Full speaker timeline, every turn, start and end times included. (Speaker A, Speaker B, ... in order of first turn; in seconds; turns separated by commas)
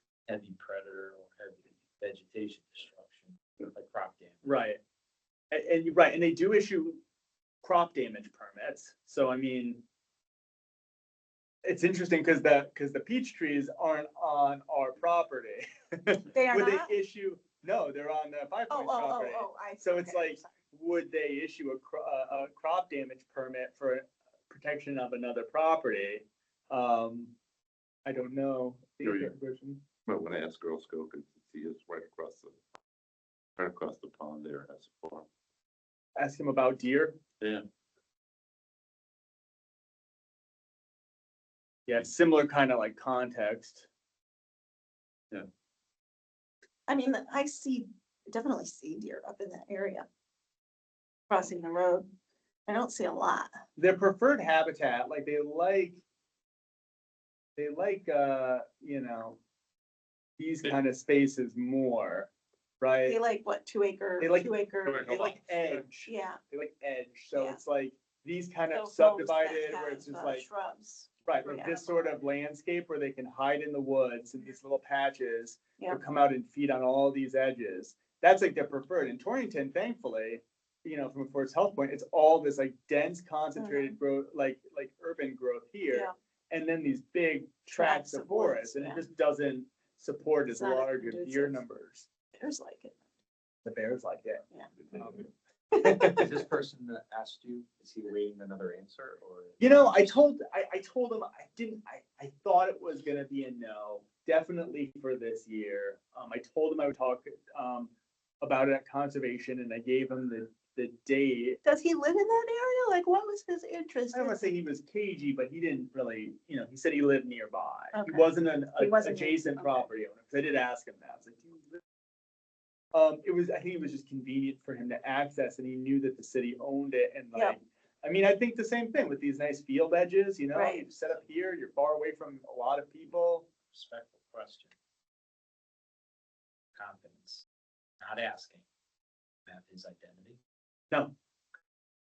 Speaker A: 0.3-4.4, Speaker B: 4.4-4.8, Speaker B: 5.5-7.0, Speaker B: 7.6-9.8, Speaker B: 11.6-27.3, Speaker C: 16.3-16.9, Speaker C: 18.7-20.5, Speaker B: 28.0-29.8, Speaker D: 29.0-29.3, Speaker D: 30.1-32.6, Speaker D: 33.6-35.3, Speaker B: 36.1-37.2, Speaker B: 41.9-43.9, Speaker C: 46.9-50.0, Speaker C: 51.3-52.1, Speaker C: 52.7-53.5, Speaker B: 53.8-56.0, Speaker B: 57.5-59.4, Speaker B: 60.4-63.2, Speaker C: 63.0-65.2, Speaker B: 64.2-70.4, Speaker D: 64.8-65.8, Speaker C: 66.0-66.4, Speaker C: 67.3-67.6, Speaker C: 68.7-72.1, Speaker B: 71.2-92.1, Speaker C: 83.5-83.9, Speaker C: 87.7-89.0, Speaker C: 90.5-91.6, Speaker C: 92.4-93.0, Speaker B: 93.6-94.4, Speaker B: 95.0-95.2, Speaker C: 95.7-96.2, Speaker B: 95.7-96.3, Speaker A: 96.2-100.2, Speaker B: 99.6-111.6, Speaker C: 111.6-114.5, Speaker B: 114.1-121.8, Speaker C: 117.9-119.9, Speaker B: 122.9-133.5, Speaker C: 130.5-130.8, Speaker A: 133.7-134.7, Speaker A: 136.8-137.4, Speaker A: 138.0-138.6, Speaker A: 139.5-140.4